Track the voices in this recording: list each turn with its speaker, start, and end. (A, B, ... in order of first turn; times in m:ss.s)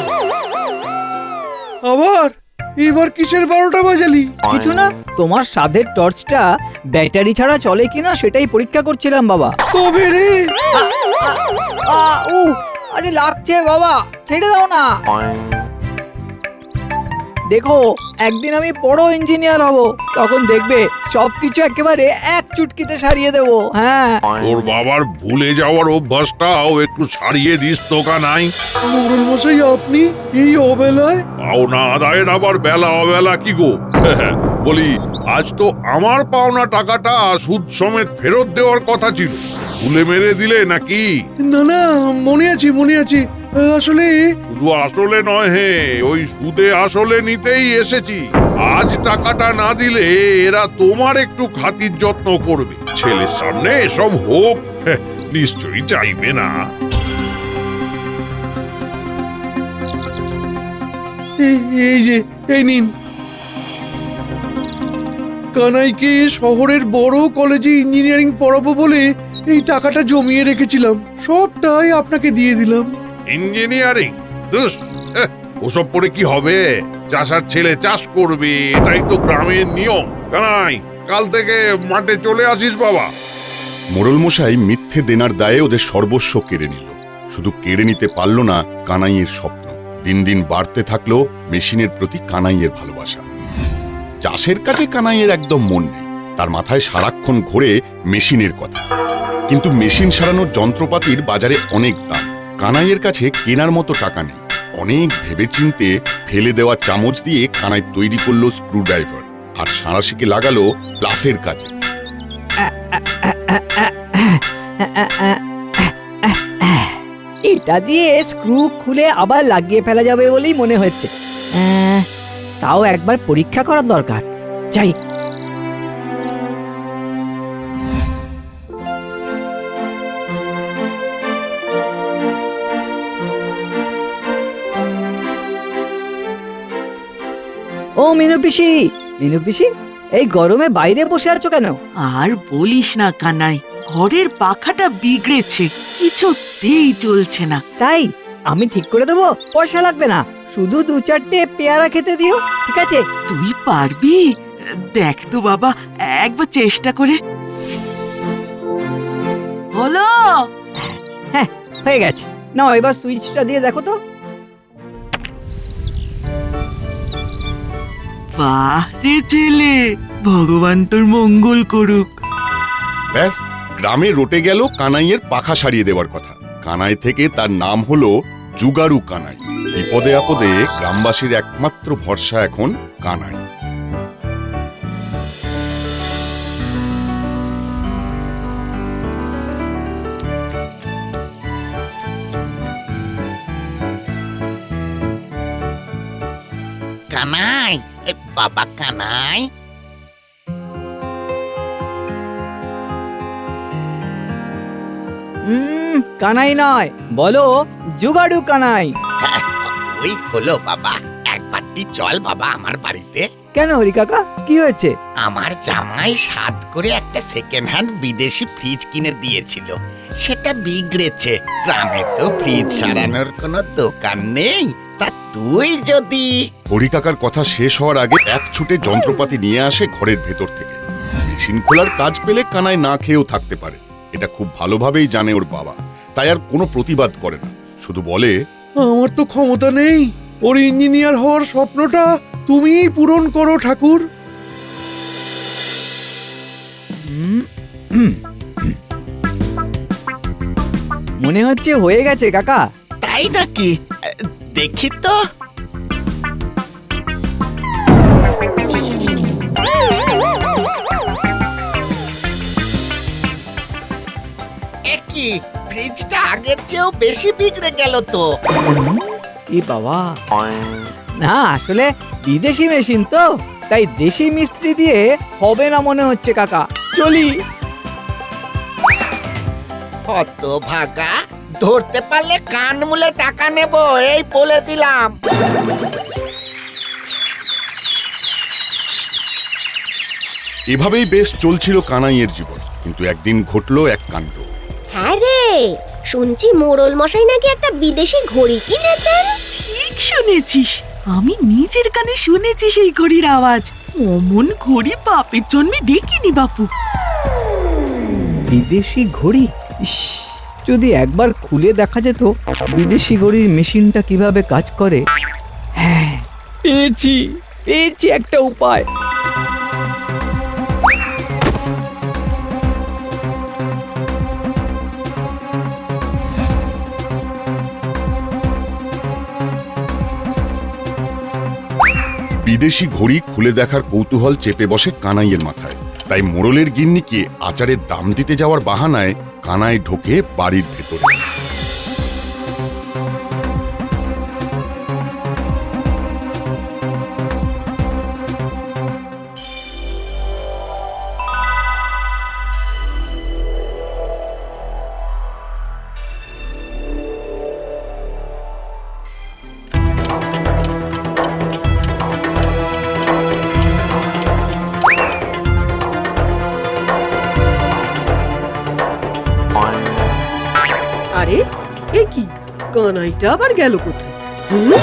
0:01.9-0:02.2 A
0:02.9-0:04.2 A
0:04.5-0:06.4 B
0:07.0-0:09.5 B
0:10.8-0:14.9 B
0:17.5-0:24.2 B
0:24.4-0:28.5 C
0:28.9-0:31.2 A
0:31.4-0:41.2 C
0:41.5-0:44.2 A
0:44.5-0:56.5 C
1:01.4-1:02.9 A
1:05.6-1:12.9 A
1:13.3-1:23.1 C
1:24.0-1:33.2 D
1:34.2-1:38.8 D
1:39.5-1:51.7 D
1:52.6-2:02.1 B
2:02.6-2:05.0 B
2:18.0-2:21.8 B
2:22.0-2:27.6 E
2:27.8-2:33.0 B
2:33.3-2:34.3 E
2:34.9-2:37.2 E
2:39.7-2:40.5 E
2:41.3-2:44.0 B
2:48.4-2:52.2 E
2:53.1-3:03.4 D
3:17.1-3:19.5 F
3:25.5-3:28.9 B
3:29.2-3:33.3 F
3:33.6-3:34.9 B
3:35.2-3:46.4 F
3:46.7-3:58.4 D
3:58.9-4:04.0 A
4:07.0-4:08.8 B
4:11.2-4:12.6 B
4:13.0-4:13.8 F
4:14.6-4:15.2 F
4:24.9-4:28.3 F
4:28.6-4:29.0 B
4:29.5-4:30.1 B
4:31.2-4:37.3 B
4:40.1-4:45.2 F
4:50.7-4:54.5 D
4:55.0-4:55.5 G
4:56.1-4:59.3 G
4:59.5-5:06.7 E
5:08.5-5:15.0 B
5:15.8-5:18.8 B
5:32.4-5:41.2 D
6:11.2-6:11.4 H
6:12.0-6:14.1 H